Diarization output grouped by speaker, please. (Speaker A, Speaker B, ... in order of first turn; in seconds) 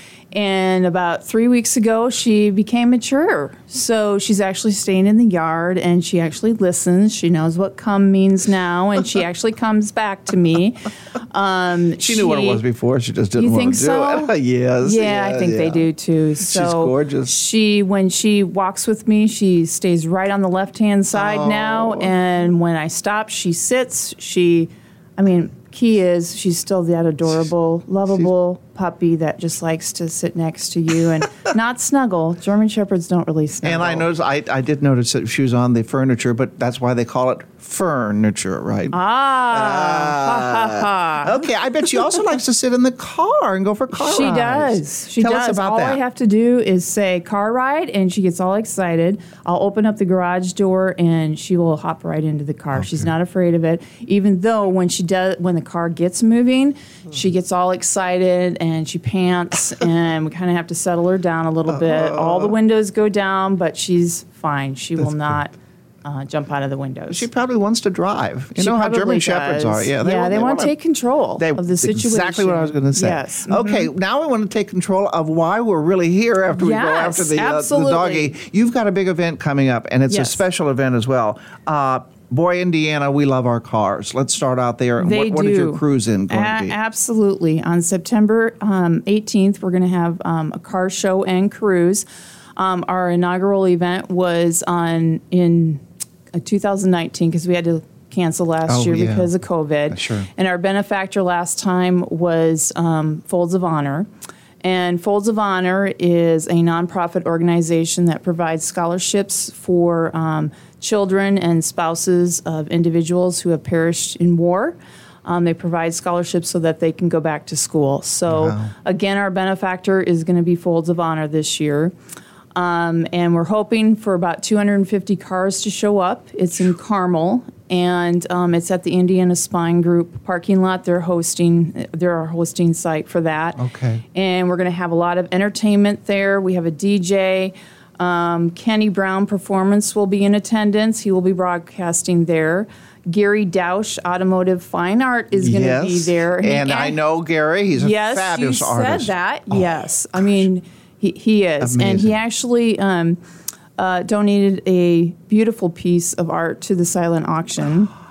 Speaker A: 0.3-12.6, 13.3-34.1, 38.9-41.4, 44.0-67.3, 68.6-73.9, 76.5-78.3, 80.1-80.4, 85.0-92.1, 92.6-104.1, 104.6-121.9, 122.5-133.6, 134.1-147.0, 147.7-153.2, 153.8-157.9
Speaker B: 12.0-17.3, 21.1-22.1, 33.6-39.0, 39.5-46.0, 52.7-53.1, 61.7-62.6, 65.0-65.4, 67.1-70.8, 71.4-86.8, 98.7-99.3, 99.9-100.3, 118.3-118.7, 133.6-134.0, 145.3-150.5, 151.6-152.2